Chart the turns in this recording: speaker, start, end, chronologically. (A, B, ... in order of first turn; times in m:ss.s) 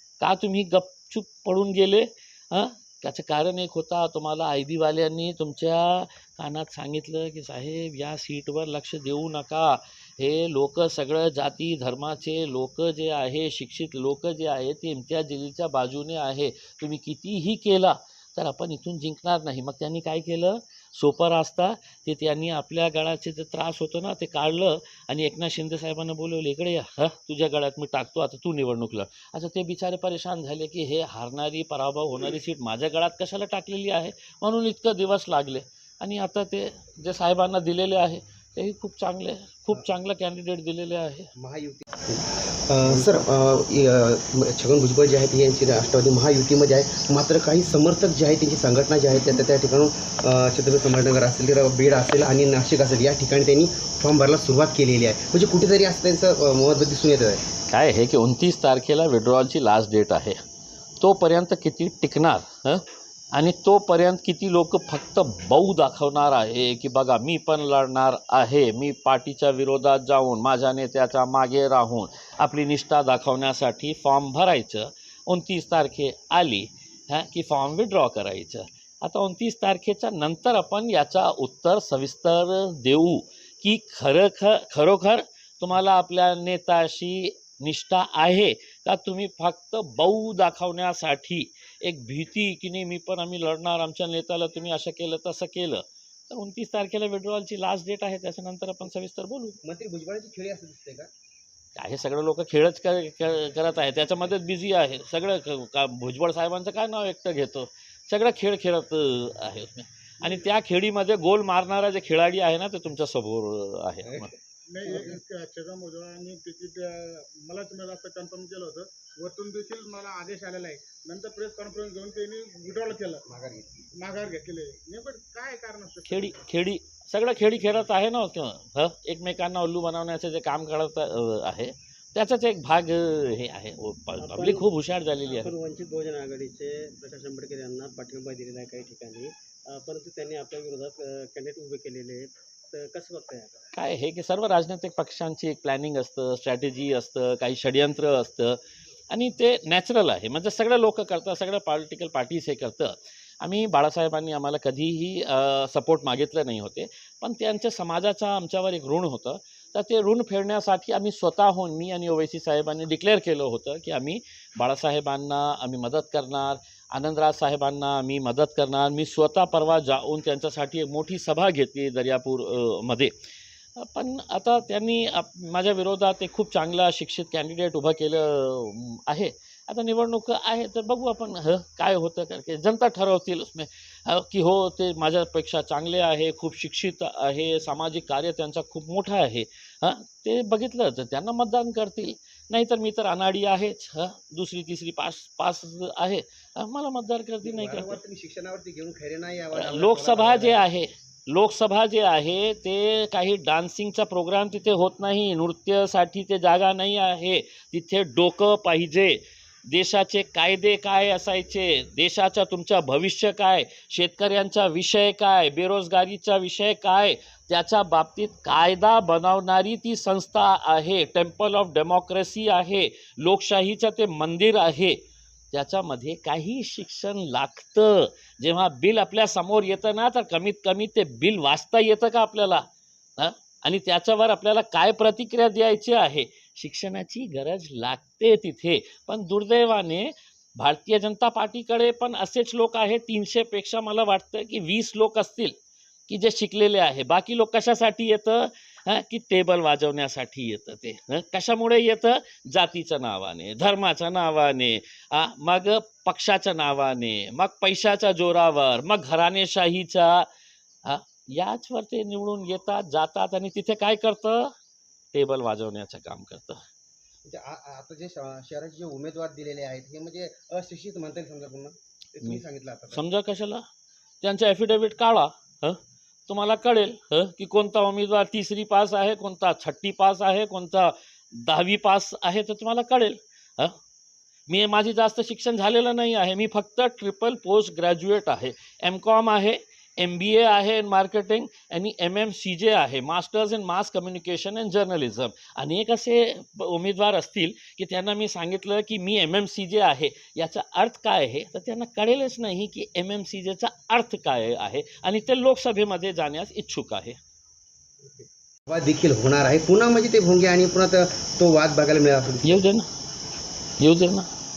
0:00.2-0:41.3 A
0:41.4-0:57.4 B
0:57.7-1:00.4 A
1:01.0-1:39.6 A
1:39.6-1:41.1 B
1:41.8-1:54.3 A
1:54.0-1:55.2 B
1:54.7-2:03.2 C
2:03.2-2:03.9 B
2:03.9-2:06.4 C
2:06.1-2:15.5 A
2:14.2-2:14.7 D
2:15.3-2:23.6 D
2:23.7-2:28.6 A
2:29.1-2:53.1 A
2:53.8-3:18.0 A
3:17.4-3:20.6 B
3:19.5-3:45.0 A
3:45.5-3:52.6 A
3:53.2-4:05.5 A
4:06.1-4:20.3 A
4:20.8-4:24.5 A
4:25.1-4:26.6 A
4:27.2-4:33.0 B
4:32.9-4:33.6 A
4:34.2-4:43.8 A
4:44.5-5:07.2 A
5:08.0-5:12.6 B
5:12.4-5:12.8 A
5:13.8-5:14.3 A